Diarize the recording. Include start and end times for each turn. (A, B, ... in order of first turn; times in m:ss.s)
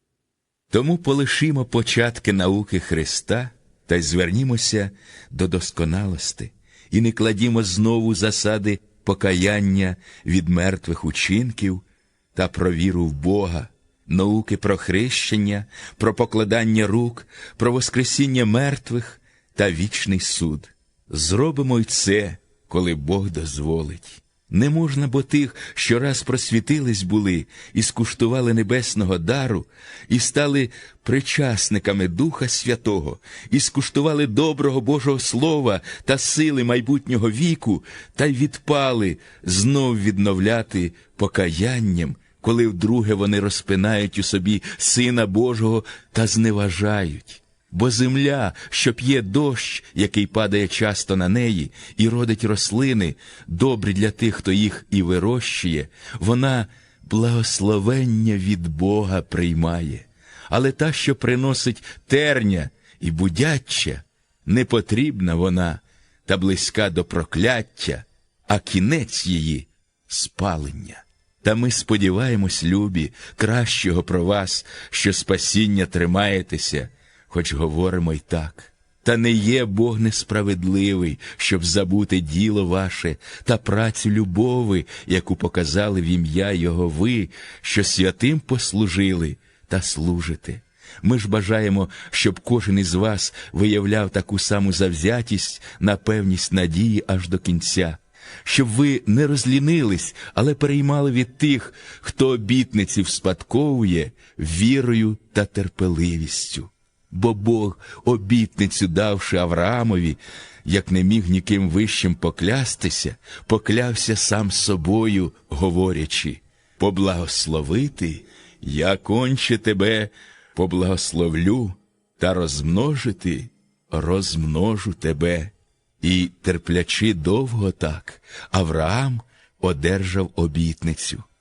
0:00.7-0:11.8 A
0:12.3-2:11.2 A